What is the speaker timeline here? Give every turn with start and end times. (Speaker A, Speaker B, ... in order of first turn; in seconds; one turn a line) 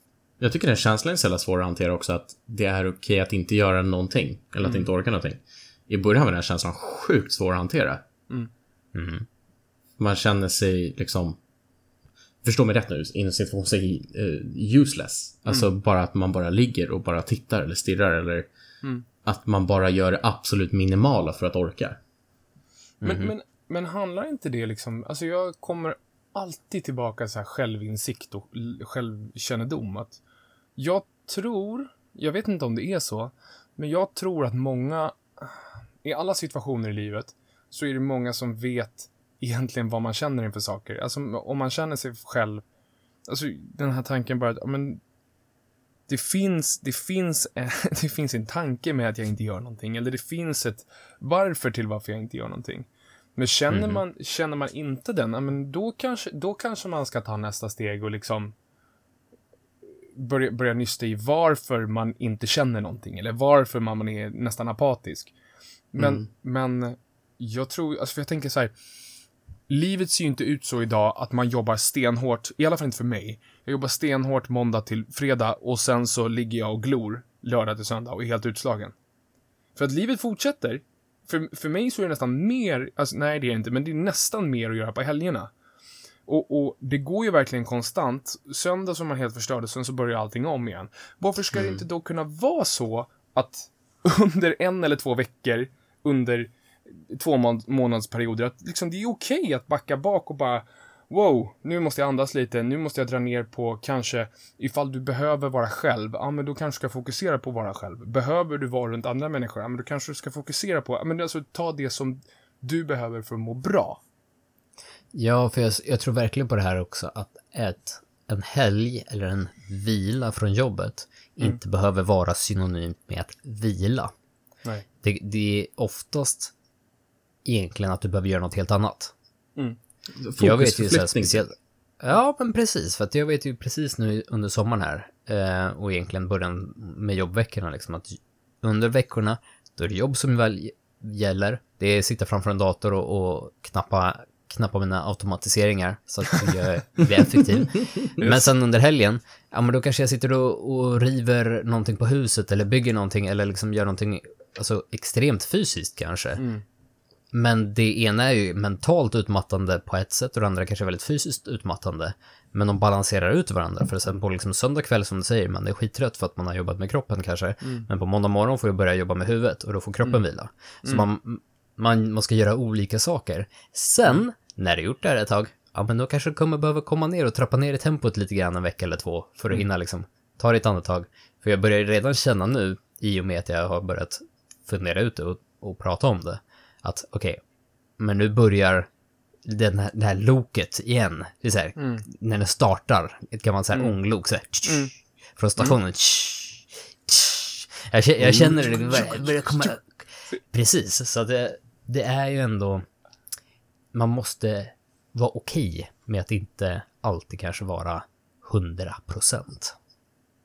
Speaker A: 0.4-8.0
Speaker B: 4.6-4.9
Speaker C: 8.9-9.3
Speaker A: 10.0-11.4
Speaker A: 12.4-18.5
Speaker A: 19.2-22.0
Speaker C: 23.0-23.3
Speaker B: 23.0-30.2
Speaker B: 30.8-42.6
Speaker B: 43.3-45.0
Speaker B: 46.1-58.5
Speaker C: 53.7-54.0
Speaker B: 60.1-65.3
Speaker B: 65.9-68.7
Speaker B: 69.7-78.9
Speaker B: 79.8-85.5
Speaker B: 86.3-114.0
Speaker A: 91.5-91.8
Speaker C: 115.1-124.1
Speaker C: 125.0-126.5
Speaker C: 127.5-129.1
Speaker A: 130.2-131.4
Speaker C: 130.4-156.4
Speaker B: 148.2-148.5
Speaker B: 156.4-156.6
Speaker C: 157.3-187.4
Speaker B: 167.6-167.9
Speaker C: 188.0-188.9
Speaker C: 189.4-202.8
Speaker B: 191.8-192.1
Speaker B: 194.7-194.9
Speaker B: 198.3-199.7
Speaker C: 203.9-209.8